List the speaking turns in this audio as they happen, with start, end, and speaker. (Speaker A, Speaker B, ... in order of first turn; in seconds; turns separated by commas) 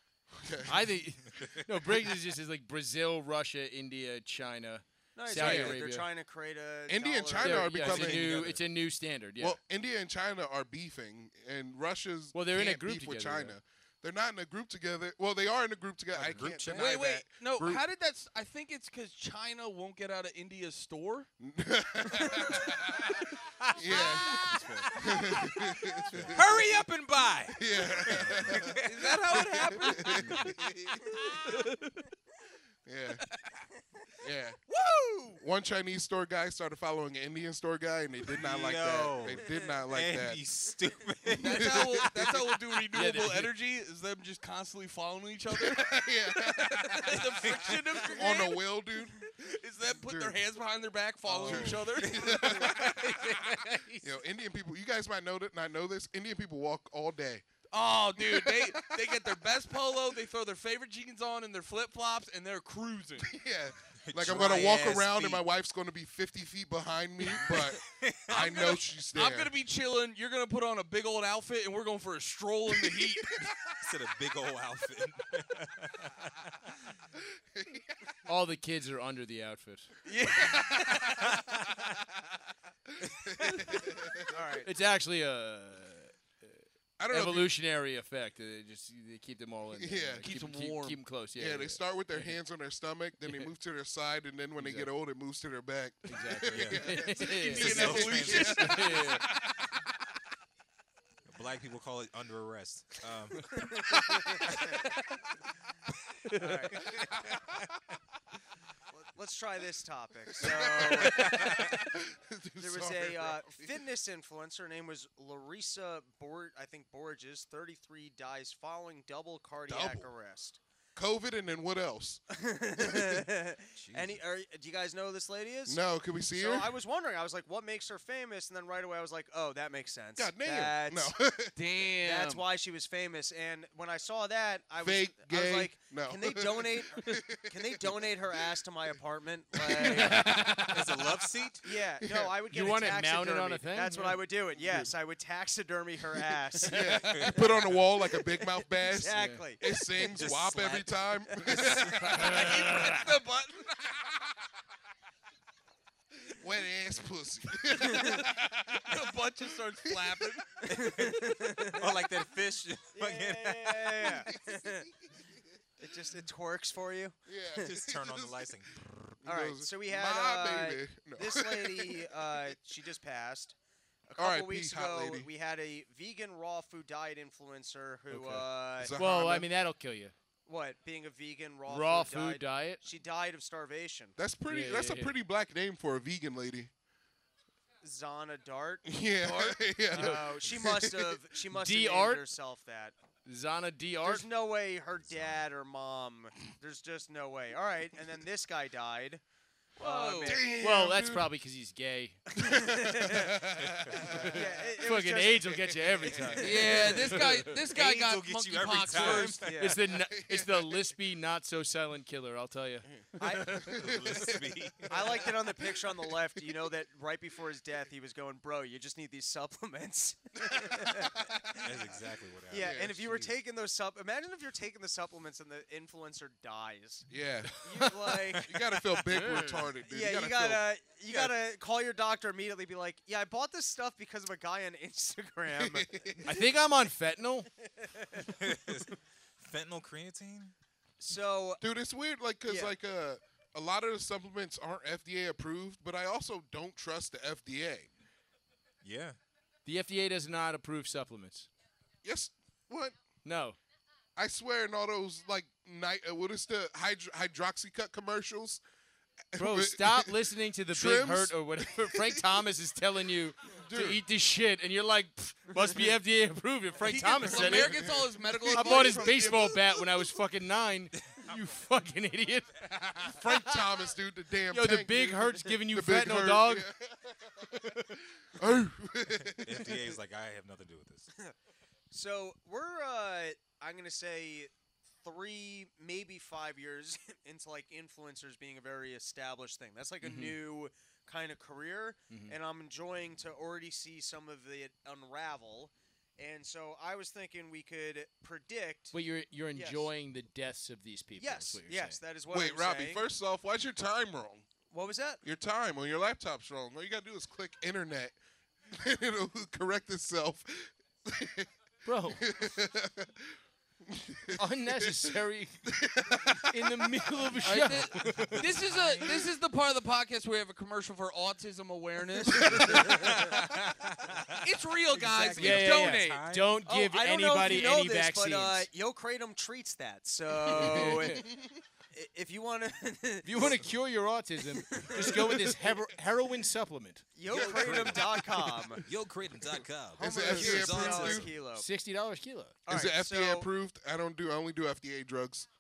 Speaker A: 0.3-1.1, Speaker B: 0.7-6.0, Speaker C: 1.3-1.6, Speaker D: 5.2-8.6, Speaker A: 5.3-5.8, Speaker A: 6.9-8.6, Speaker B: 7.4-9.6, Speaker A: 9.4-17.8, Speaker B: 12.3-13.6, Speaker C: 16.1-16.9, Speaker B: 16.2-16.8, Speaker E: 16.5-21.3, Speaker A: 21.4-26.4, Speaker C: 23.8-25.7, Speaker B: 23.9-24.9, Speaker B: 25.9-26.4, Speaker C: 26.3-31.6, Speaker A: 27.6-28.8, Speaker E: 28.7-30.4, Speaker A: 29.3-30.6, Speaker B: 30.2-30.5, Speaker E: 31.5-32.0, Speaker A: 32.9-33.2, Speaker E: 33.3-33.6, Speaker A: 34.2-34.6, Speaker E: 34.7-35.4, Speaker A: 35.4-40.4, Speaker C: 38.3-42.5, Speaker E: 41.4-48.6, Speaker A: 41.4-42.1, Speaker B: 42.9-43.5, Speaker A: 45.5-49.3, Speaker E: 49.2-52.8, Speaker A: 50.0-50.4, Speaker A: 51.3-57.4, Speaker C: 51.3-53.5, Speaker E: 57.7-63.3, Speaker A: 58.2-59.4, Speaker A: 63.3-69.5, Speaker C: 64.0-65.5, Speaker C: 67.3-68.5, Speaker E: 68.3-73.5, Speaker A: 72.9-73.5, Speaker C: 73.8-76.7, Speaker A: 77.5-77.9, Speaker B: 78.3-79.9, Speaker E: 80.1-81.3, Speaker A: 80.4-81.2, Speaker A: 83.1-84.3, Speaker D: 84.3-84.7, Speaker B: 84.6-86.5, Speaker A: 87.0-87.5, Speaker B: 87.1-92.4, Speaker A: 89.8-90.3, Speaker E: 90.2-91.0, Speaker A: 91.4-99.8, Speaker B: 93.2-93.5, Speaker B: 94.6-94.9, Speaker B: 96.1-99.2, Speaker C: 96.5-98.7, Speaker E: 97.5-99.0, Speaker C: 101.3-103.6, Speaker D: 103.6-104.7, Speaker B: 106.3-106.7, Speaker D: 106.4-106.8, Speaker A: 106.8-107.5, Speaker D: 108.9-111.6, Speaker A: 110.4-113.7, Speaker D: 112.6-120.6, Speaker A: 119.7-120.1, Speaker A: 121.0-122.3, Speaker D: 122.3-131.2, Speaker A: 122.8-123.2, Speaker C: 123.8-124.2, Speaker A: 125.7-126.7, Speaker A: 130.2-131.6, Speaker E: 131.6-132.4, Speaker D: 132.0-140.5, Speaker A: 134.8-138.1, Speaker A: 139.6-140.2, Speaker E: 140.2-140.9, Speaker C: 140.7-141.7, Speaker D: 141.6-147.7, Speaker B: 142.5-144.2, Speaker A: 144.6-144.9, Speaker A: 146.7-152.6, Speaker C: 147.1-147.8, Speaker D: 148.8-149.8, Speaker B: 149.1-149.4, Speaker C: 150.1-152.3, Speaker E: 152.0-153.9, Speaker B: 152.2-153.1, Speaker A: 156.3-159.1, Speaker D: 157.8-158.2, Speaker E: 158.8-160.7, Speaker A: 159.8-160.2, Speaker C: 160.7-164.2, Speaker D: 160.7-161.9, Speaker D: 162.9-164.9, Speaker A: 164.3-164.7, Speaker D: 165.8-167.7, Speaker A: 167.3-172.1, Speaker C: 167.6-168.7, Speaker D: 169.2-173.6, Speaker D: 174.1-178.9, Speaker A: 174.2-175.3, Speaker B: 178.1-180.1, Speaker A: 178.8-179.5, Speaker D: 180.5-184.2, Speaker B: 181.7-182.8, Speaker A: 184.2-186.7, Speaker B: 184.5-185.1, Speaker D: 187.8-192.9, Speaker A: 188.8-191.2, Speaker B: 189.9-190.4, Speaker B: 191.5-192.2, Speaker B: 193.2-194.3, Speaker D: 194.0-199.2, Speaker C: 195.0-195.5, Speaker D: 199.8-200.5, Speaker E: 199.8-200.4, Speaker A: 200.2-201.3, Speaker B: 200.6-202.3, Speaker D: 202.4-203.4, Speaker A: 202.4-204.5, Speaker B: 203.9-207.6, Speaker D: 204.0-206.3, Speaker A: 206.0-207.1, Speaker E: 206.4-209.6, Speaker C: 207.7-209.5, Speaker D: 209.0-209.8, Speaker B: 209.5-213.6, Speaker A: 209.8-210.9, Speaker A: 212.9-215.7, Speaker D: 213.2-213.8, Speaker C: 213.7-215.2, Speaker D: 214.9-221.6, Speaker A: 220.6-221.7, Speaker C: 221.6-223.2, Speaker D: 222.5-228.5, Speaker A: 222.5-223.2, Speaker A: 227.1-230.6, Speaker B: 229.1-229.7, Speaker D: 229.9-236.3, Speaker A: 235.6-236.3, Speaker B: 236.3-237.5, Speaker C: 238.2-240.5, Speaker D: 241.0-241.6, Speaker A: 241.6-247.9, Speaker D: 242.4-242.8, Speaker C: 248.8-249.2, Speaker B: 249.7-251.5, Speaker A: 252.0-252.9, Speaker B: 253.2-253.6, Speaker A: 254.2-258.6, Speaker A: 259.3-260.2, Speaker B: 259.4-267.8, Speaker A: 260.7-262.4, Speaker A: 263.5-264.0, Speaker E: 266.8-269.8, Speaker A: 267.1-269.2, Speaker B: 268.5-273.6, Speaker A: 273.1-279.8, Speaker B: 274.5-276.7, Speaker C: 279.4-281.1, Speaker D: 281.9-284.5, Speaker D: 285.0-298.9, Speaker B: 290.0-290.4, Speaker B: 292.1-292.4, Speaker B: 298.9-302.0, Speaker D: 299.5-299.9, Speaker D: 301.2-303.1, Speaker A: 302.3-304.4, Speaker D: 304.7-305.2, Speaker A: 305.2-308.1, Speaker A: 308.7-311.5, Speaker B: 311.9-312.3, Speaker A: 312.2-313.3, Speaker A: 313.9-315.1, Speaker B: 314.4-315.6, Speaker A: 315.7-317.4, Speaker B: 316.5-318.4, Speaker E: 317.4-323.3, Speaker C: 318.1-319.3, Speaker A: 322.3-322.8, Speaker C: 322.7-326.5, Speaker E: 324.4-326.3, Speaker B: 325.3-328.7, Speaker D: 326.7-331.3, Speaker B: 330.5-331.2, Speaker A: 330.5-331.5, Speaker D: 331.9-333.6, Speaker B: 333.2-338.0, Speaker D: 334.5-335.7, Speaker D: 337.1-338.8, Speaker C: 337.3-338.2, Speaker C: 338.8-341.3, Speaker D: 340.0-341.7, Speaker A: 340.0-341.3, Speaker B: 341.6-342.6, Speaker D: 342.7-343.5, Speaker A: 342.7-345.5